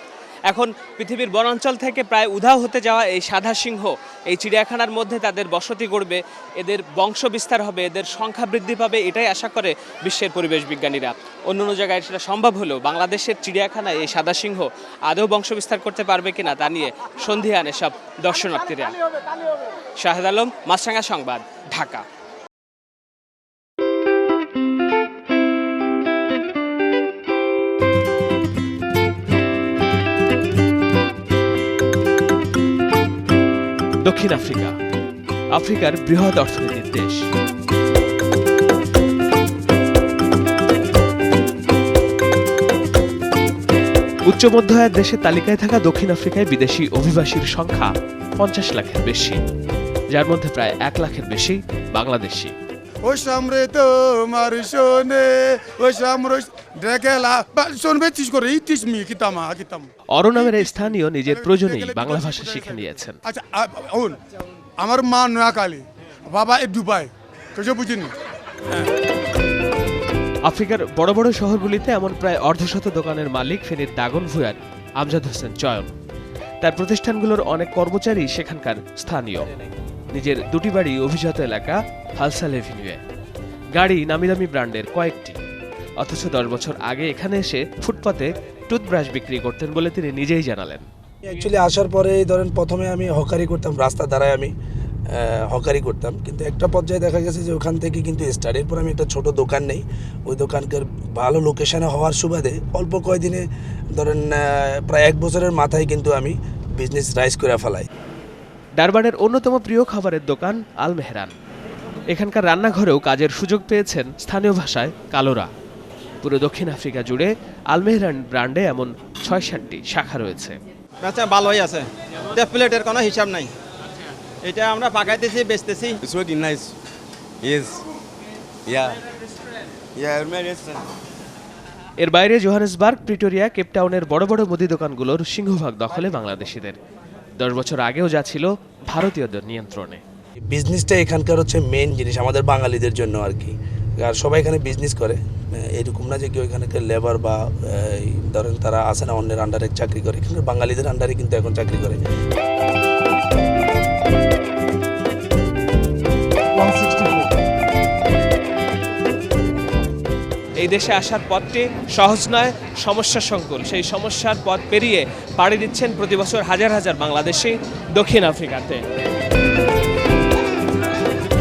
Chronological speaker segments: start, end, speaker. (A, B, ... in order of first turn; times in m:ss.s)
0:00.5-0:19.0 A
0:20.0-0:22.0 A
0:34.0-0:34.8 A
0:35.5-0:37.2 A
0:44.3-0:49.4 A
0:50.1-0:52.6 A
0:53.0-1:04.2 B
1:00.1-1:03.2 A
1:04.8-1:08.1 B
1:10.4-1:15.9 A
1:16.6-1:19.5 A
1:20.1-1:23.0 A
1:23.7-1:25.4 A
1:26.0-1:30.9 A
1:31.2-1:34.5 C
1:35.1-1:43.4 C
1:44.0-1:47.8 C
1:48.8-1:51.4 A
1:52.1-1:55.5 A
1:56.2-2:00.6 A
2:01.0-2:01.8 D
2:02.3-2:03.4 D
2:04.4-2:06.7 D
2:07.4-2:07.8 D
2:08.7-2:09.0 D
2:10.0-2:10.8 D
2:12.0-2:16.8 A
2:17.4-2:20.0 A
2:20.5-2:32.0 C
2:36.5-2:37.3 B
2:40.6-2:48.8 A